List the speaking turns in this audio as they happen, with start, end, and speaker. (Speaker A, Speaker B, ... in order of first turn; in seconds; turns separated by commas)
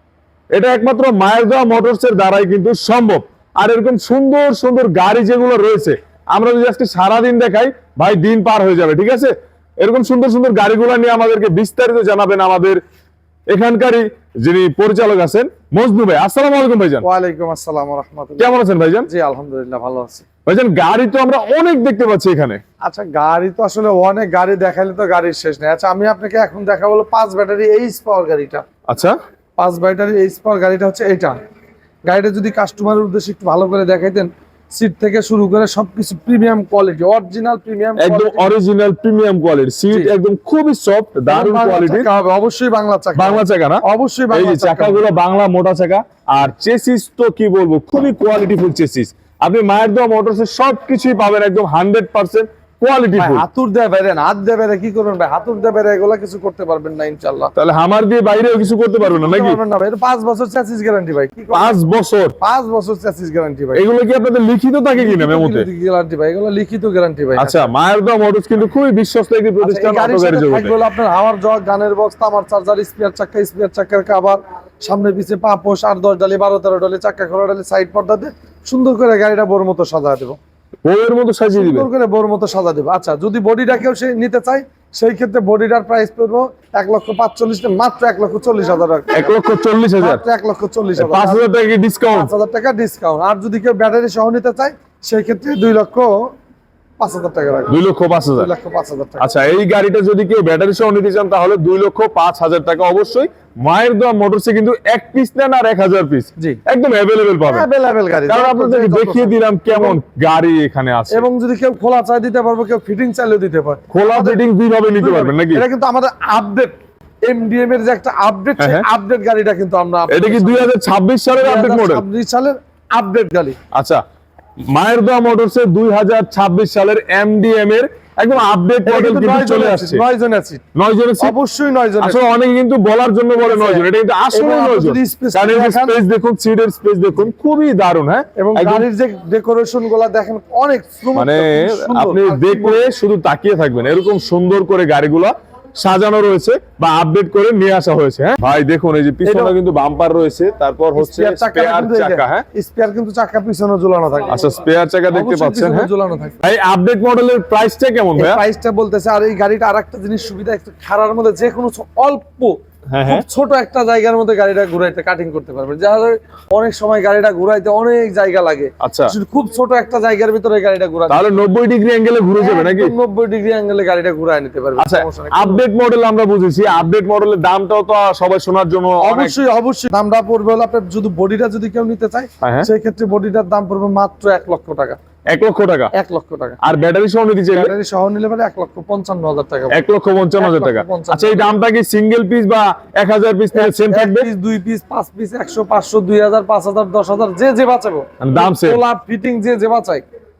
Speaker A: 0.5-12.8, Speaker A: 13.5-17.1, Speaker B: 17.0-20.3, Speaker A: 18.4-19.1, Speaker A: 20.5-22.6, Speaker B: 22.8-28.6, Speaker A: 28.9-29.2, Speaker B: 29.6-31.4, Speaker B: 32.1-38.5, Speaker A: 38.0-42.1, Speaker B: 41.3-45.0, Speaker A: 43.2-53.5, Speaker B: 53.2-57.5, Speaker A: 57.6-59.6, Speaker B: 59.0-61.8, Speaker A: 61.5-62.4, Speaker B: 62.4-63.8, Speaker A: 63.8-65.7, Speaker B: 65.0-67.7, Speaker A: 67.4-70.7, Speaker B: 69.6-80.4, Speaker A: 80.8-81.9, Speaker B: 81.5-89.3, Speaker A: 89.1-90.2, Speaker B: 90.0-91.5, Speaker A: 91.0-92.3, Speaker B: 92.1-96.3, Speaker B: 97.0-97.8, Speaker A: 97.7-98.5, Speaker B: 98.3-99.3, Speaker A: 99.2-107.7, Speaker B: 107.5-110.0, Speaker A: 108.3-111.2, Speaker B: 111.1-114.4, Speaker A: 113.9-115.6, Speaker B: 114.9-116.7, Speaker B: 117.3-120.7, Speaker A: 118.6-118.9, Speaker A: 120.1-122.0, Speaker B: 121.3-123.6, Speaker A: 123.7-124.0, Speaker A: 124.7-130.0, Speaker B: 128.8-130.6, Speaker A: 130.8-131.4, Speaker B: 131.2-132.2, Speaker A: 132.0-138.9, Speaker B: 133.4-136.0, Speaker B: 138.4-142.9, Speaker A: 141.2-152.5, Speaker B: 149.2-149.6, Speaker B: 151.0-154.5, Speaker A: 154.3-155.9, Speaker B: 155.1-156.4, Speaker A: 156.4-158.4, Speaker B: 158.2-171.3, Speaker A: 162.9-163.2, Speaker A: 168.8-169.2, Speaker A: 171.1-172.9, Speaker B: 172.4-175.6, Speaker A: 174.8-179.4, Speaker B: 179.0-185.0, Speaker A: 182.4-182.7, Speaker A: 185.3-185.9, Speaker B: 185.9-186.6, Speaker A: 186.6-187.8, Speaker B: 187.5-189.8, Speaker A: 189.7-194.3, Speaker B: 190.4-191.5, Speaker B: 193.5-200.0, Speaker A: 198.2-198.8